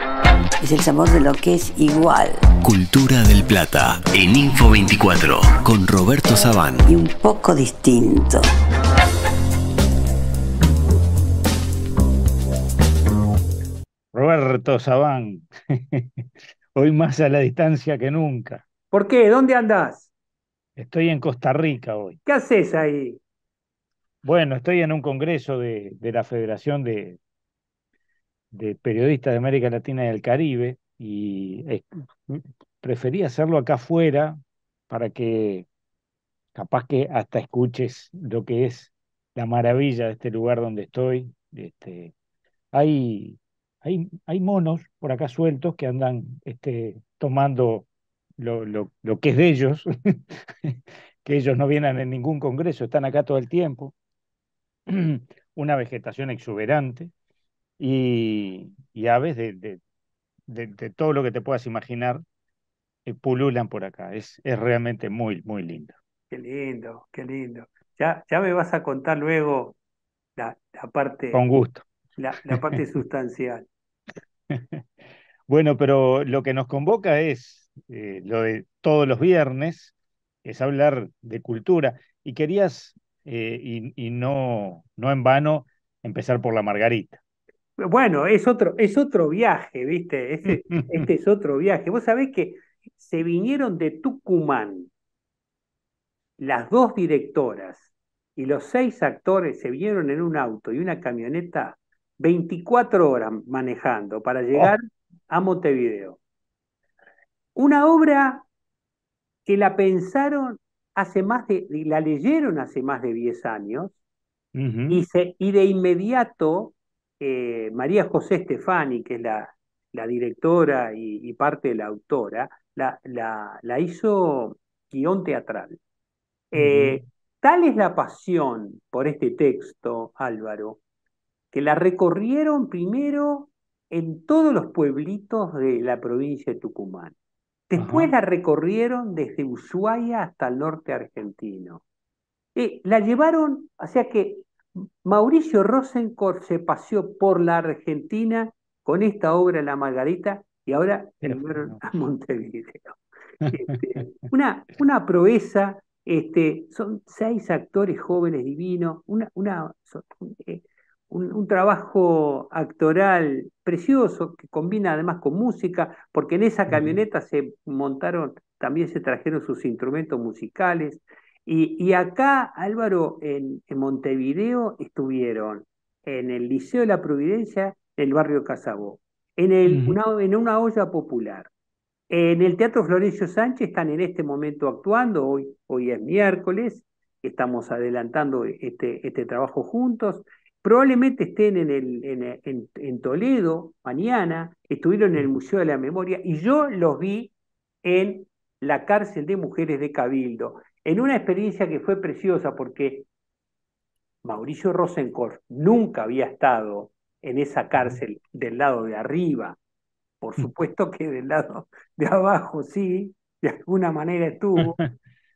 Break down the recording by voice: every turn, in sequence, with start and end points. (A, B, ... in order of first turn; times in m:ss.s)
0:00.6-0:02.4 A
0:02.6-0:06.9 B
0:06.9-0:08.4 A
0:14.1-0:18.6 C
0:18.9-0:20.1 D
0:20.8-0:22.2 C
0:22.2-0:23.2 D
0:24.2-0:27.2 C
0:28.5-0:34.4 C
0:34.9-0:35.7 C
0:36.5-0:42.1 C
0:42.7-0:47.9 C
0:48.4-0:53.9 C
0:54.9-0:57.1 C
0:57.8-0:59.8 C
1:00.5-1:02.2 C
1:03.0-1:05.9 C
1:06.3-1:09.8 D
1:10.4-1:11.6 D
1:11.3-1:11.8 C
1:12.2-1:13.7 D
1:12.5-1:12.8 C
1:14.5-1:14.8 C
1:15.5-1:19.9 C
1:20.4-1:27.2 C
1:27.8-1:34.9 D
1:30.4-1:31.0 C
1:36.4-1:46.2 D
1:47.5-1:48.4 D
1:49.4-1:54.0 D
1:54.5-1:55.0 C
1:54.9-2:05.8 D
2:06.5-2:10.8 D
2:06.5-2:07.0 C
2:11.5-2:17.1 D
2:17.7-2:21.8 D
2:17.8-2:18.1 C
2:22.5-2:33.0 D
2:31.2-2:31.8 C
2:33.4-2:33.7 C
2:33.5-3:01.5 D
2:46.7-2:47.0 C
2:59.7-3:00.0 C
3:02.1-3:23.1 D
3:24.2-3:29.6 D
3:30.2-3:34.8 D
3:34.6-3:34.9 C